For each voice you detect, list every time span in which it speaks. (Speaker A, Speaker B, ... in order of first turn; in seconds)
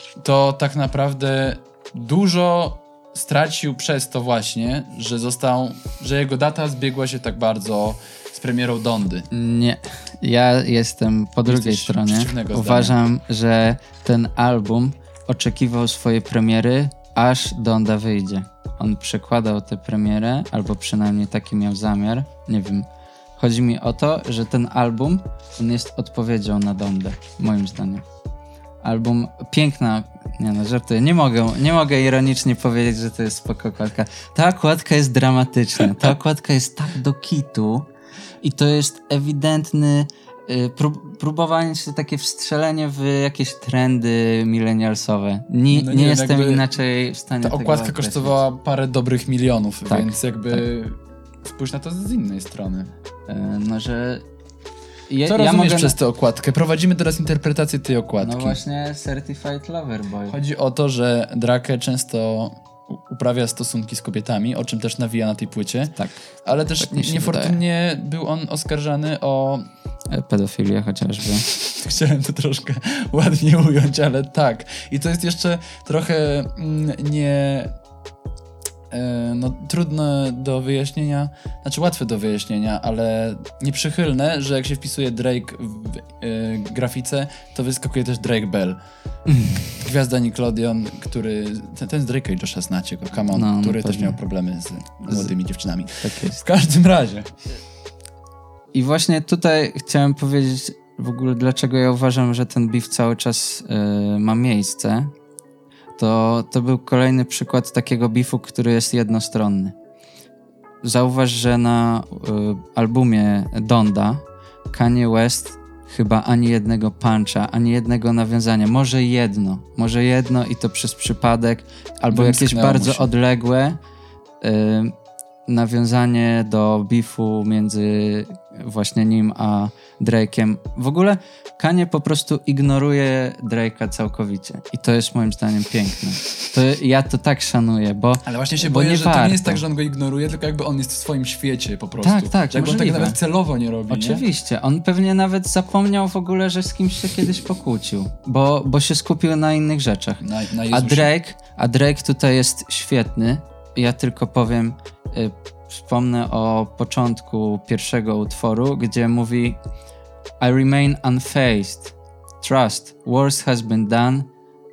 Speaker A: 0.2-9.3, 11.4-13.0, 45.7-46.7, 47.4-52.9, 55.3-58.6, 60.3-69.7, 71.5-77.7, 78.9-88.8, 89.8-97.3, 122.1-123.1, 138.2-144.2, 150.2-151.1
Speaker B: 9.3-22.9, 23.4-28.0, 28.8-37.9, 38.4-48.4, 49.9-50.6, 53.3-54.2, 55.1-56.0, 58.2-60.4, 66.8-67.6, 70.1-71.5, 89.3-89.8, 93.3-94.2, 95.1-95.3, 96.0-96.4, 98.7-105.1, 106.0-109.8, 110.8-123.8, 124.4-124.9, 125.5-139.6, 142.0-143.2, 143.9-159.6, 160.4-164.3